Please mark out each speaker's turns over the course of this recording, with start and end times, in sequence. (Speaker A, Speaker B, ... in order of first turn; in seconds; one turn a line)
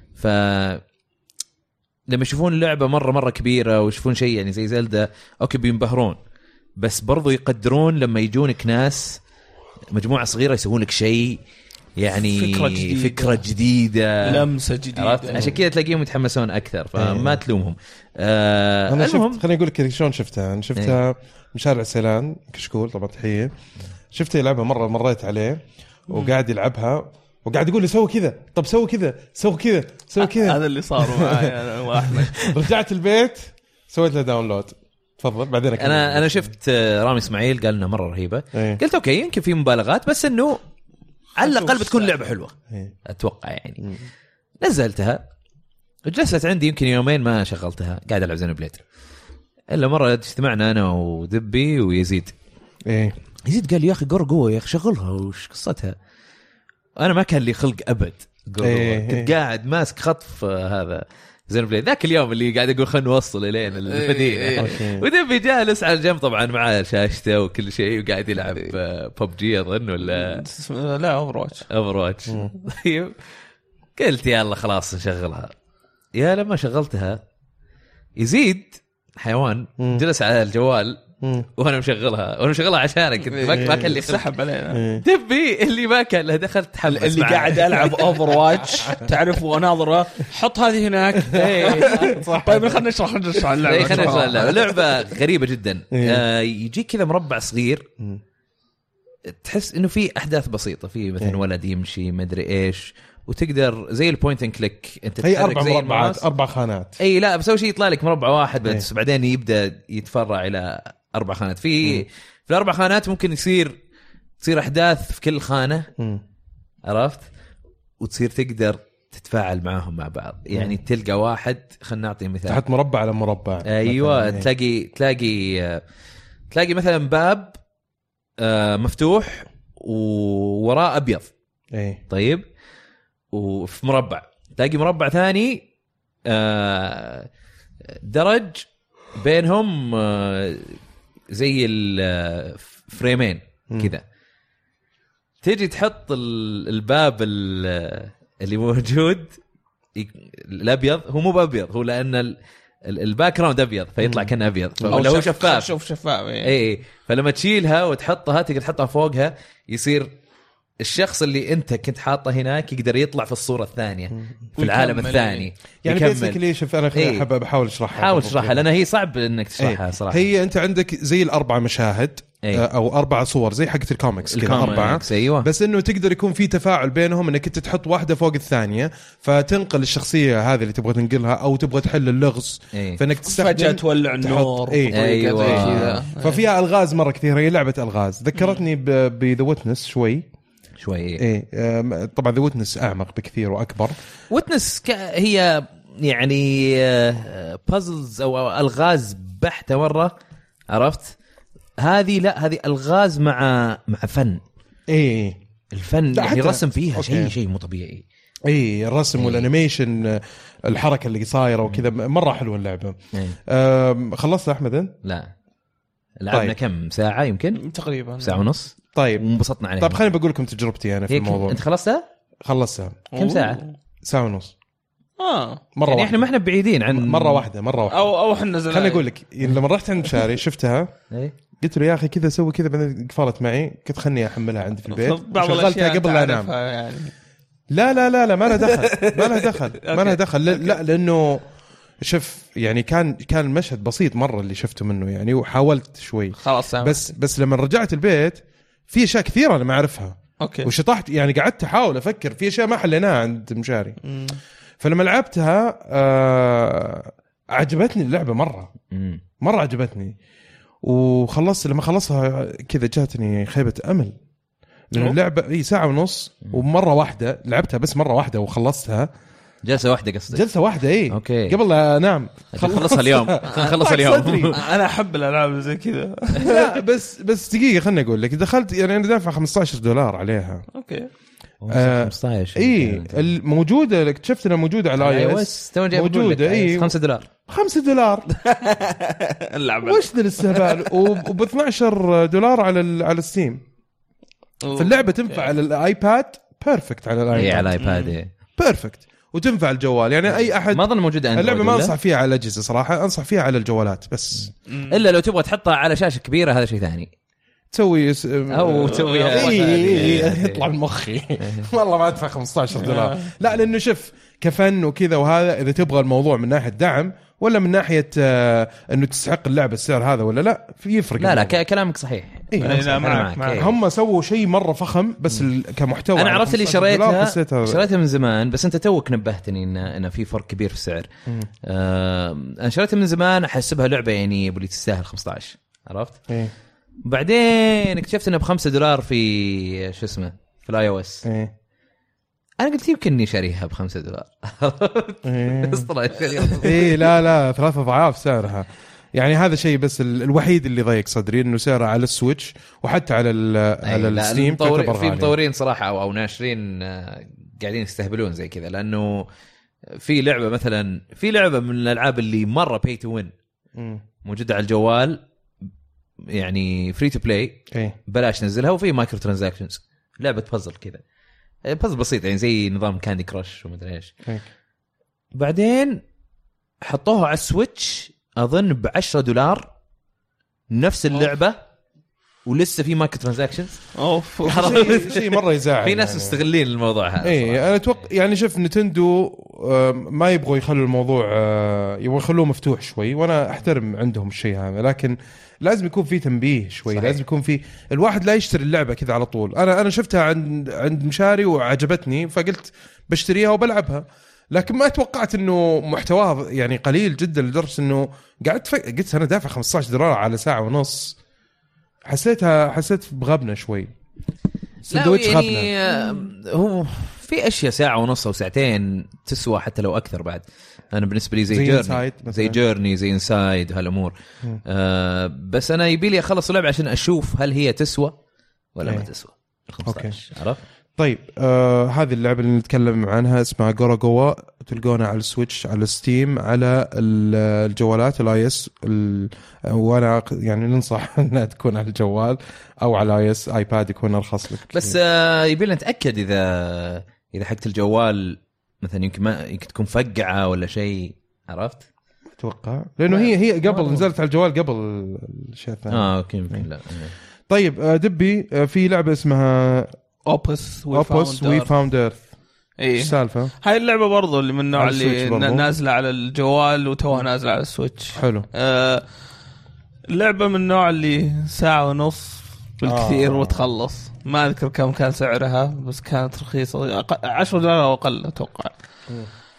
Speaker A: 0.1-0.8
Speaker A: 2.1-6.2
Speaker A: 6.8-9.2
Speaker A: 9.9-11.4
Speaker A: 12.0-19.4
Speaker B: 12.1-13.4
Speaker B: 14.2-15.4
Speaker C: 16.9-17.4
Speaker C: 18.9-23.5
Speaker C: 24.1-36.5
Speaker B: 30.2-32.5
Speaker A: 35.8-40.6
Speaker C: 38.5-38.8
Speaker A: 41.4-42.5
Speaker B: 41.4-42.2
Speaker A: 43.0-43.9
Speaker A: 44.6-45.2
Speaker A: 46.0-48.8
Speaker A: 49.7-52.3
Speaker C: 52.9-53.1
Speaker A: 53.5-56.0
Speaker A: 57.0-70.4
Speaker C: 58.6-59.3
Speaker B: 63.9-64.7
Speaker C: 64.6-65.0
Speaker B: 70.0-71.7
Speaker A: 71.7-73.1
Speaker A: 74.0-75.5
Speaker A: 76.1-77.2
Speaker A: 78.2-81.0
Speaker C: 81.2-81.5
Speaker A: 81.5-84.2
Speaker B: 83.3-84.8
Speaker C: 83.5-83.9
Speaker C: 84.7-85.0
Speaker A: 85.0-88.8
Speaker B: 86.9-94.8
Speaker C: 91.3-92.8
Speaker A: 91.3-92.2
Speaker A: 93.6-97.8
Speaker C: 93.8-94.3
Speaker C: 95.9-96.2
Speaker A: 99.3-106.2
Speaker C: 105.2-107.0
Speaker A: 107.0-113.8
Speaker A: 114.4-115.9
Speaker A: 116.8-117.2
Speaker A: 118.0-122.6
Speaker C: 122.5-124.5
Speaker A: 123.6-125.8
Speaker A: 126.5-127.6
Speaker A: 128.4-131.3
Speaker C: 131.7-132.0
Speaker A: 132.1-132.4
Speaker A: 133.3-135.7
Speaker A: 136.2-137.3
Speaker A: 137.9-140.8
Speaker A: 141.3-144.0
Speaker A: 145.4-149.4
Speaker A: 149.9-155.7
Speaker C: 154.0-155.0
Speaker B: 154.9-156.5
Speaker A: 156.4-160.1
Speaker A: 160.8-166.4
Speaker B: 164.6-165.4
Speaker C: 165.8-168.6
Speaker A: 166.9-167.2
Speaker A: 167.9-170.2
Speaker C: 169.6-190.2
Speaker A: 174.3-175.5
Speaker A: 182.7-183.0
Speaker B: 183.2-186.4
Speaker A: 184.9-186.0
Speaker B: 188.3-188.6
Speaker A: 190.8-191.2
Speaker C: 191.2-194.0
Speaker A: 194.3-200.1
Speaker A: 200.7-201.2
Speaker A: 201.8-204.4
Speaker C: 204.9-205.4
Speaker A: 205.7-208.0
Speaker C: 206.1-207.3
Speaker C: 208.5-214.9
Speaker A: 209.1-209.5
Speaker A: 215.0-215.3
Speaker A: 216.2-217.6
Speaker B: 217.6-218.5
Speaker A: 218.2-220.0
Speaker C: 218.9-219.2
Speaker C: 219.8-221.6
Speaker A: 221.1-222.1
Speaker C: 222.4-223.1
Speaker B: 223.1-223.7
Speaker A: 223.1-223.6
Speaker C: 224.0-224.5
Speaker B: 225.2-225.6
Speaker C: 225.8-226.3
Speaker A: 225.8-227.4
Speaker C: 226.9-228.1
Speaker B: 227.9-229.0
Speaker C: 228.7-230.9
Speaker C: 231.6-236.5
Speaker B: 234.9-237.1
Speaker C: 237.7-241.4
Speaker B: 238.6-240.8
Speaker C: 242.0-254.0
Speaker B: 246.4-247.1
Speaker B: 250.4-250.7
Speaker B: 254.0-254.4
Speaker C: 254.8-258.7
Speaker A: 258.9-259.2
Speaker C: 259.4-260.1
Speaker C: 260.8-264.1
Speaker C: 264.9-269.1
Speaker A: 269.6-270.4
Speaker C: 270.3-274.5
Speaker A: 271.1-271.6
Speaker A: 272.5-274.6
Speaker B: 274.5-276.8
Speaker C: 276.4-280.6
Speaker B: 280.7-281.1
Speaker A: 281.6-283.3
Speaker C: 281.7-286.9
Speaker A: 285.0-287.3
Speaker C: 287.5-288.3
Speaker B: 288.3-291.1
Speaker C: 289.8-293.6
Speaker B: 294.6-295.5
Speaker C: 294.7-297.7
Speaker A: 297.3-298.3
Speaker B: 297.8-298.1
Speaker C: 298.5-304.5
Speaker A: 300.7-301.9
Speaker B: 304.7-305.0
Speaker A: 304.9-307.1
Speaker C: 307.7-321.6
Speaker A: 308.5-310.7
Speaker B: 308.9-310.2
Speaker B: 312.7-313.3
Speaker A: 321.2-323.7
Speaker C: 322.5-327.8
Speaker B: 322.6-323.6
Speaker A: 326.1-331.1
Speaker A: 331.6-336.2
Speaker A: 337.0-341.2
Speaker C: 341.2-341.5
Speaker A: 342.6-347.0
Speaker C: 345.2-345.9
Speaker C: 346.5-355.4
Speaker A: 353.8-359.3
Speaker A: 359.9-363.3
Speaker C: 363.8-364.0
Speaker A: 364.2-365.2
Speaker A: 366.3-371.0
Speaker A: 371.6-374.1
Speaker A: 375.3-376.0
Speaker A: 376.8-379.7
Speaker A: 380.7-381.6
Speaker A: 382.4-383.9
Speaker B: 383.9-385.0
Speaker C: 384.4-386.4
Speaker A: 384.4-388.0
Speaker C: 387.2-411.2
Speaker A: 396.9-397.2
Speaker C: 412.1-413.9
Speaker C: 414.9-415.7
Speaker A: 414.9-424.1
Speaker C: 421.5-422.6
Speaker A: 424.6-428.1
Speaker A: 428.7-430.6
Speaker C: 429.8-430.1
Speaker C: 431.0-445.0
Speaker A: 444.7-451.9
Speaker C: 452.4-456.7
Speaker B: 453.1-454.0
Speaker A: 455.9-457.1
Speaker C: 457.5-459.9
Speaker B: 460.2-461.7
Speaker C: 460.9-462.2
Speaker B: 462.8-469.0
Speaker C: 462.9-463.5
Speaker C: 464.8-465.6
Speaker C: 468.1-468.4
Speaker B: 470.1-478.7
Speaker C: 472.8-473.6